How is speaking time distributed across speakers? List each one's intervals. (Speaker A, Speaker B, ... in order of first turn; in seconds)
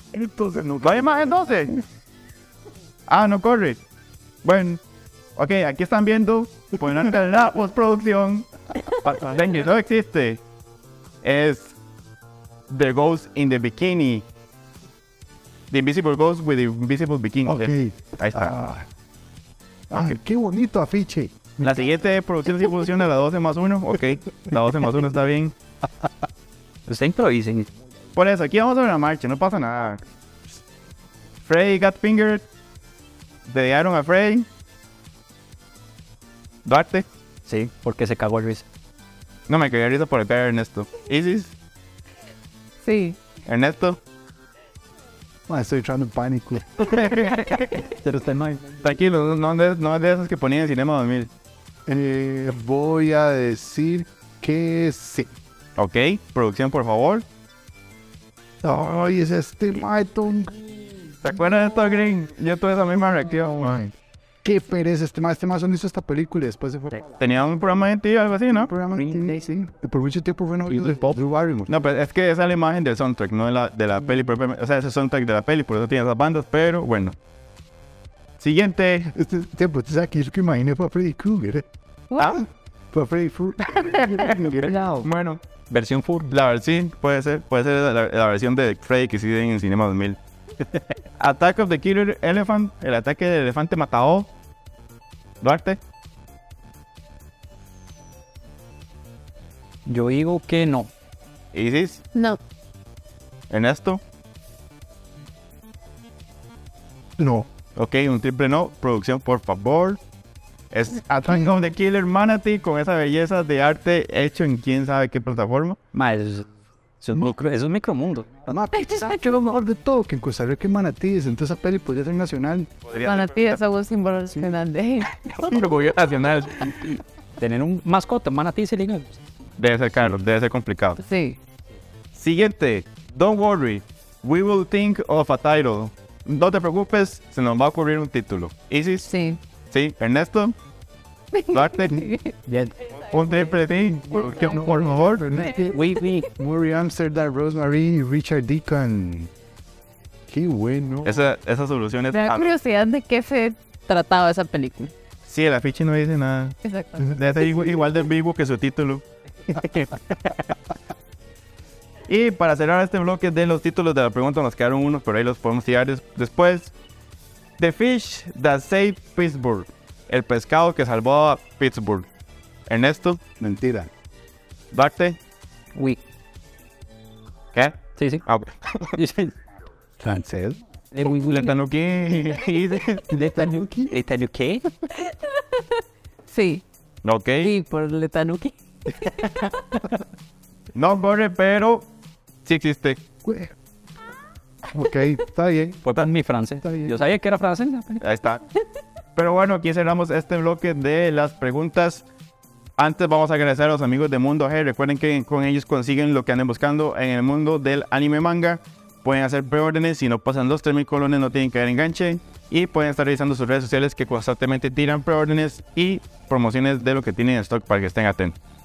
Speaker A: 0.1-1.7, 17.4-18.9, 19.9-21.8, 45.5-46.9, 51.9-55.3, 58.6-60.6, 64.4-67.0, 68.5-71.7, 79.1-81.7, 82.9-84.9, 107.2-107.5, 118.5-122.7, 144.1-149.3, 150.3-151.3, 173.4-173.9, 180.0-180.6, 183.6-183.9, 193.2-193.6, 194.7-195.8, 196.6-197.0
Speaker B: 0.8-1.8, 3.1-3.8, 4.4-4.8, 5.4-8.5, 9.1-10.4, 11.2-11.8, 12.7-14.2, 15.7-18.5, 21.6-25.5, 28.1-30.0, 31.4-32.5, 33.5-34.5, 36.6-37.1, 39.5-41.5, 43.5-44.0, 46.8-47.9, 48.8-51.3, 55.8-57.2, 61.2-63.9, 67.2-68.7, 70.7-71.2, 71.7-77.2, 78.4-79.1, 84.0-85.4, 86.3-90.2, 91.2-94.3, 95.4-95.8, 101.5-102.0, 103.5-104.0, 107.8-110.0, 110.7-115.8, 122.9-123.6, 125.3-127.0, 129.6-131.0, 132.1-139.1, 139.7-140.6, 141.5-142.1, 143.0-145.4, 151.1-152.5, 155.2-160.4, 162.1-166.7, 167.6-172.1, 172.7-173.2, 174.7-175.2, 177.5-178.9, 181.3-183.0, 187.0-187.5, 190.7-191.9, 192.4-193.0, 198.0-198.4, 199.2-202.1, 202.8-218.4
Speaker C: 26.9-27.7, 37.5-38.6, 48.0-48.8, 69.0-69.4, 85.7-86.3, 99.9-100.9, 115.9-116.5, 117.0-118.5, 127.4-129.2, 142.5-142.7, 145.5-146.3, 175.8-176.0, 178.0-178.2, 179.0-179.3, 180.9-181.5, 183.1-184.7, 195.8-198.0
Speaker D: 42.8-43.2, 118.9-119.1, 123.0-125.1, 131.0-131.4, 139.1-139.4, 141.3-142.3, 152.1-154.9, 156.6-157.1, 185.0-186.6, 187.4-189.8